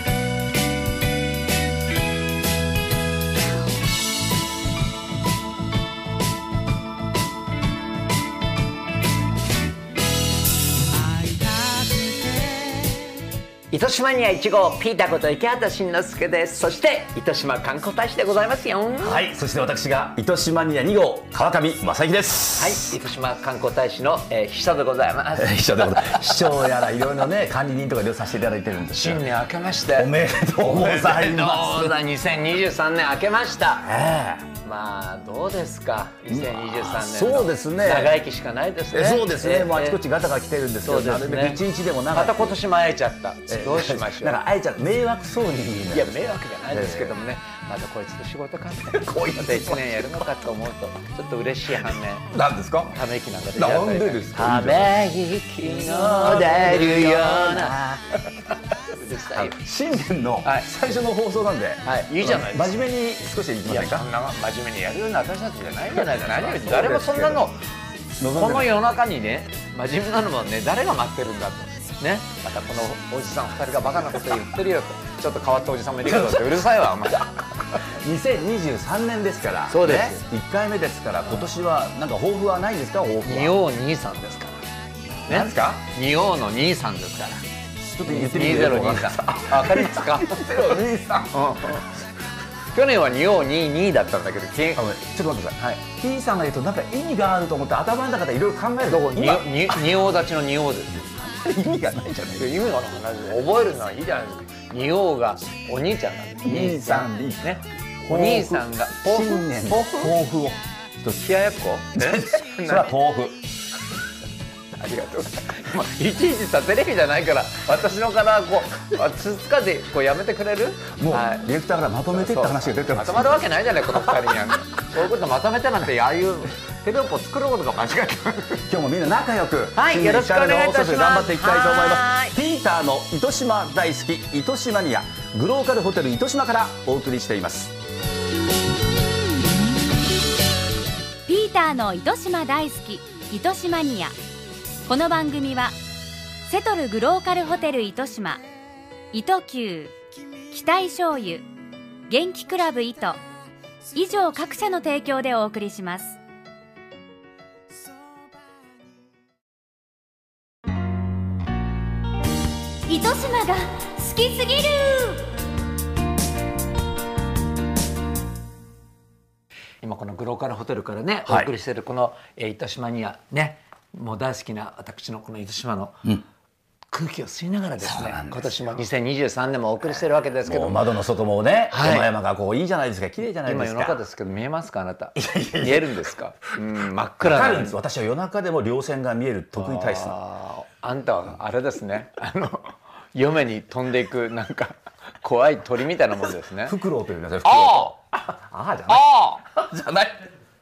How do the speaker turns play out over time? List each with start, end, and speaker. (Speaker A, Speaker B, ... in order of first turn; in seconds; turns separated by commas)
Speaker A: 13.7-19.3, Speaker B: 19.0-22.9, Speaker A: 22.6-26.6, Speaker B: 25.4-29.2, Speaker A: 28.9-33.9, Speaker B: 29.9-31.9, Speaker B: 33.8-34.5, Speaker A: 34.6-40.0, Speaker B: 36.3-38.1, Speaker B: 38.9-42.6, Speaker A: 40.8-41.6, Speaker A: 42.1-44.4, Speaker B: 43.5-46.1, Speaker A: 45.9-52.3, Speaker B: 46.7-47.2, Speaker B: 48.9-50.2, Speaker B: 52.3-53.0, Speaker A: 52.9-57.8, Speaker B: 53.5-55.0, Speaker B: 55.6-58.1, Speaker A: 58.4-59.6, Speaker B: 59.4-64.1, Speaker A: 61.8-62.8, Speaker A: 63.6-67.6, Speaker B: 65.9-67.4, Speaker B: 68.2-68.8, Speaker A: 68.3-77.9, Speaker B: 76.1-76.6, Speaker B: 77.8-83.6, Speaker A: 79.7-80.2, Speaker A: 83.2-84.6, Speaker B: 85.3-85.7, Speaker A: 85.3-87.4, Speaker B: 87.8-91.8, Speaker A: 88.1-91.9, Speaker A: 92.7-94.8, Speaker B: 94.8-100.0, Speaker A: 98.9-101.1, Speaker B: 101.1-102.6, Speaker A: 102.4-110.1, Speaker B: 106.4-107.5, Speaker B: 108.0-111.2, Speaker A: 111.2-112.9, Speaker B: 111.9-113.4, Speaker A: 114.8-121.5, Speaker B: 121.0-123.4, Speaker A: 122.1-128.7, Speaker B: 128.7-137.8, Speaker A: 129.8-132.3, Speaker C: 141.2-144.2, Speaker C: 144.9-145.8, Speaker C: 146.5-148.4, Speaker C: 149.1-149.9, Speaker C: 150.5-151.4, Speaker C: 152.1-153.2, Speaker C: 153.9-156.2, Speaker C: 162.9-165.2, Speaker A: 169.8-176.2, Speaker A: 176.9-180.8, Speaker B: 177.8-178.4, Speaker B: 180.4-184.0, Speaker A: 181.7-182.1, Speaker A: 183.4-187.8, Speaker B: 185.2-186.1, Speaker B: 187.2-190.2, Speaker A: 189.6-196.8, Speaker B: 196.7-200.3, Speaker A: 197.4-197.9, Speaker A: 198.9-199.4